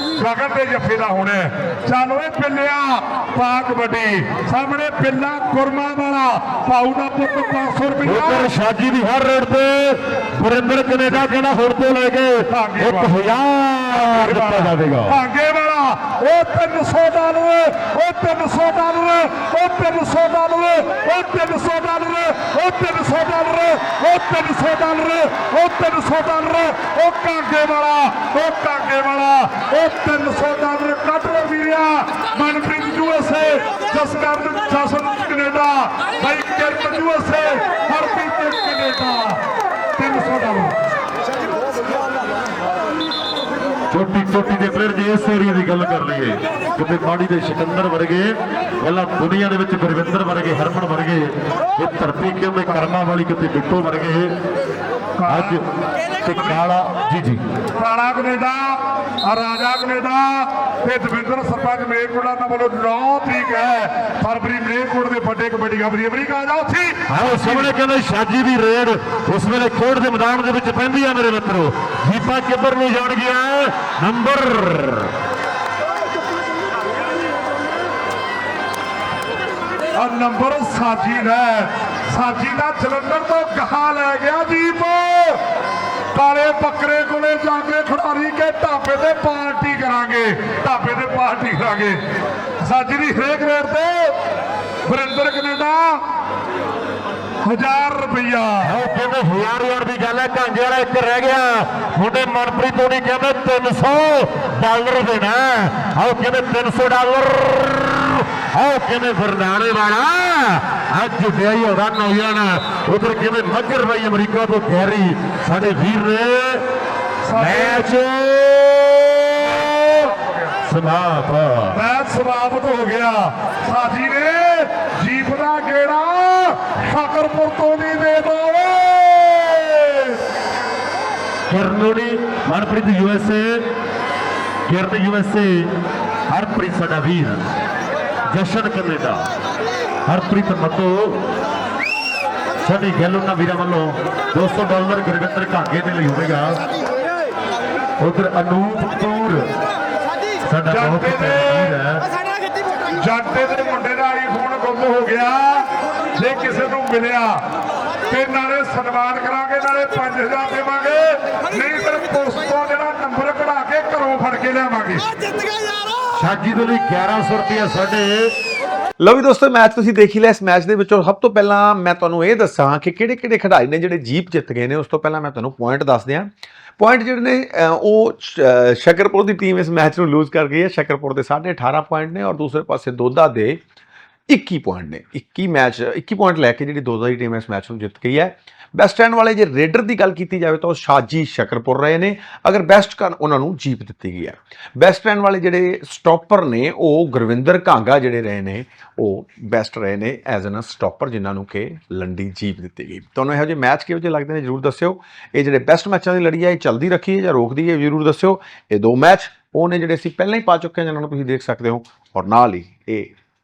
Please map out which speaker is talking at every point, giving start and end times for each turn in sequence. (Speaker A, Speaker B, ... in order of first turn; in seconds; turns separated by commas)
Speaker A: 0.2-8.5, Speaker B: 8.0-15.1, Speaker A: 12.5-13.2, Speaker A: 14.0-39.4, Speaker A: 40.0-40.7, Speaker B: 43.9-54.3, Speaker A: 55.2-55.6, Speaker B: 55.3-55.6, Speaker B: 56.2-57.4, Speaker A: 57.8-67.7, Speaker B: 67.1-75.1, Speaker A: 80.0-85.4, Speaker A: 86.1-92.0, Speaker A: 92.6-94.2, Speaker A: 94.9-96.0, Speaker A: 97.4-98.7, Speaker B: 98.6-116.6, Speaker A: 117.2-117.8, Speaker B: 117.3-120.1, Speaker B: 120.7-121.8, Speaker A: 121.7-130.2, Speaker B: 131.5-133.6, Speaker B: 134.7-135.7, Speaker B: 136.3-137.4, Speaker B: 138.3-139.2, Speaker B: 140.1-141.2, Speaker B: 142.6-146.6, Speaker B: 148.0-149.5, Speaker B: 150.5-152.0, Speaker A: 150.7-151.8, Speaker A: 153.0-157.4, Speaker A: 158.1-165.1, Speaker B: 166.2-168.3, Speaker C: 169.0-183.6, Speaker C: 184.3-213.1